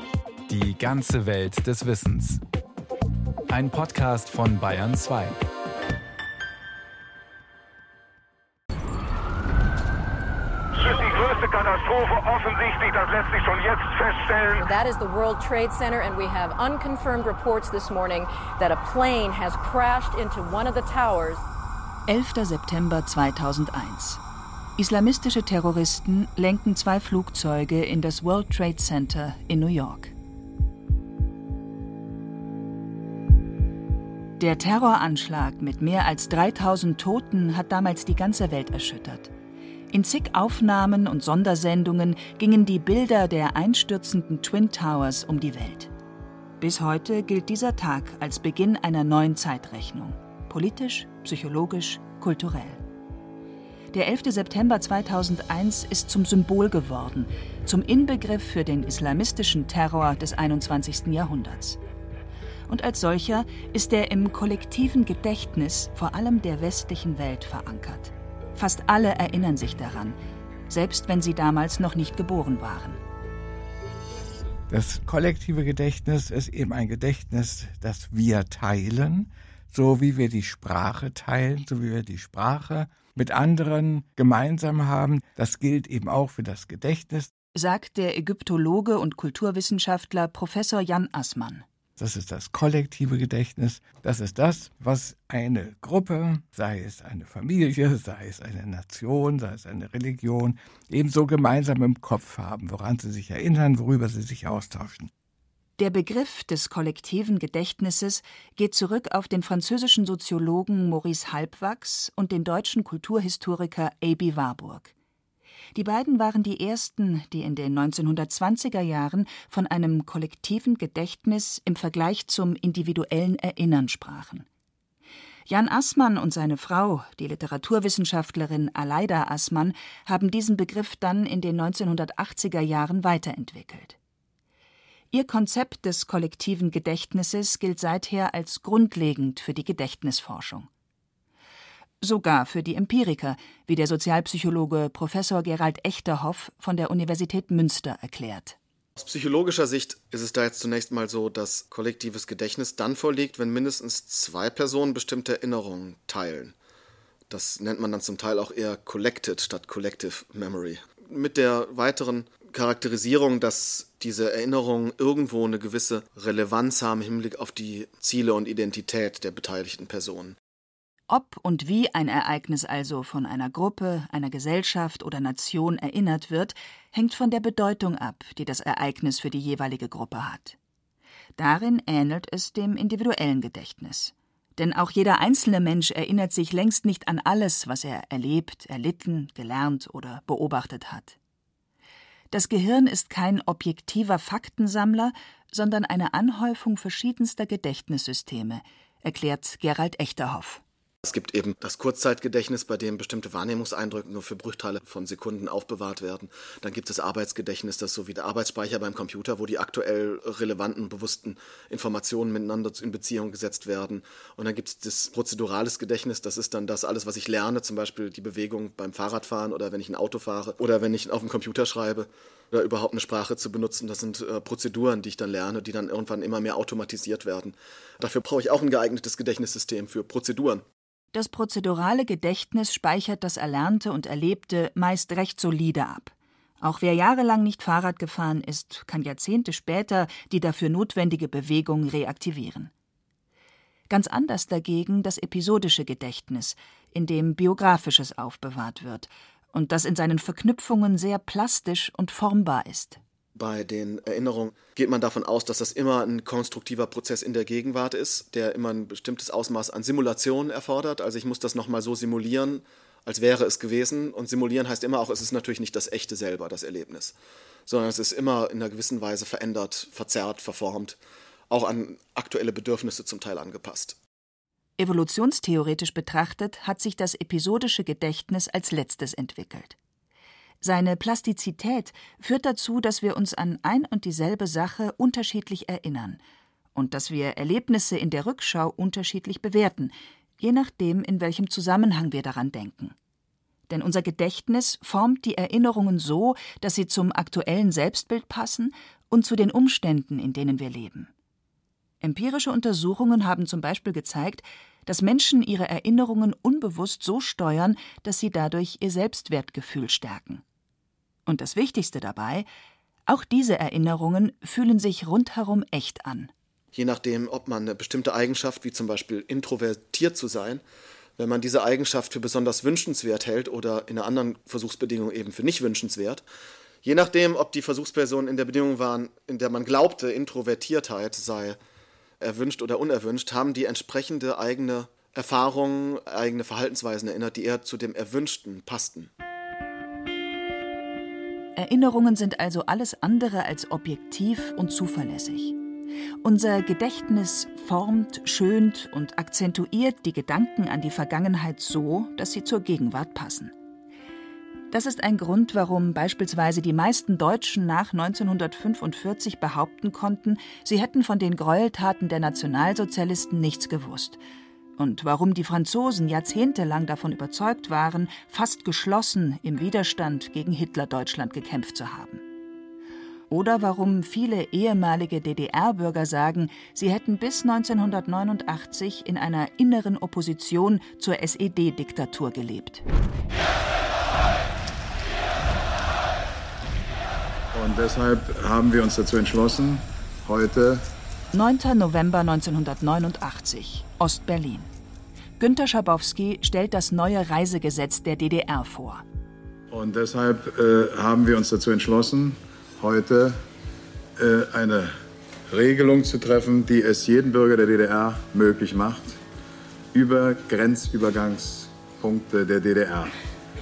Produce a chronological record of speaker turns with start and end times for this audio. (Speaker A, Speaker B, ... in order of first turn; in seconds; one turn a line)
Speaker A: 0.5-2.4
Speaker A: 3.5-5.3
Speaker B: 10.8-14.6
Speaker C: 14.6-21.4
Speaker D: 22.1-24.2
Speaker D: 24.8-30.1
Speaker D: 34.4-39.3
Speaker D: 39.9-45.9
Speaker D: 46.6-52.8
Speaker D: 53.9-61.8
Speaker D: 62.7-73.0
Speaker E: 74.7-87.3
Speaker D: 87.5-91.6
Speaker E: 92.0-105.1
Speaker D: 105.8-114.9
Speaker D: 115.7-124.5
Speaker D: 125.5-134.0
Speaker D: 135.1-140.7
Speaker D: 142.0-148.6
Speaker F: 149.0-156.5
Speaker F: 157.3-170.3
Speaker D: 171.1-180.6
Speaker D: 181.4-191.2
Speaker D: 192.3-200.6
Speaker F: 201.0-230.6
Speaker D: 231.1-242.7
Speaker D: 243.9-253.0
Speaker F: 253.3-267.1
Speaker F: 267.7-271.0
Speaker F: 271.5-274.0
Speaker D: 274.8-279.8
Speaker D: 280.6-286.2
Speaker D: 286.8-292.9
Speaker D: 293.7-301.1
Speaker D: 302.0-310.4
Speaker D: 311.2-312.5
Speaker D: 313.1-316.3
Speaker F: 316.7-320.6
Speaker F: 321.2-326.2
Speaker F: 326.8-331.6
Speaker F: 332.2-339.1
Speaker D: 341.6-345.6
Speaker D: 346.2-353.5
Speaker D: 354.7-364.2
Speaker D: 364.8-372.2
Speaker D: 373.3-382.8
Speaker G: 387.5-390.8
Speaker D: 391.3-394.7
Speaker D: 395.4-399.0
Speaker G: 399.7-403.4
Speaker G: 404.2-404.9
Speaker G: 405.5-409.2
Speaker G: 409.9-413.1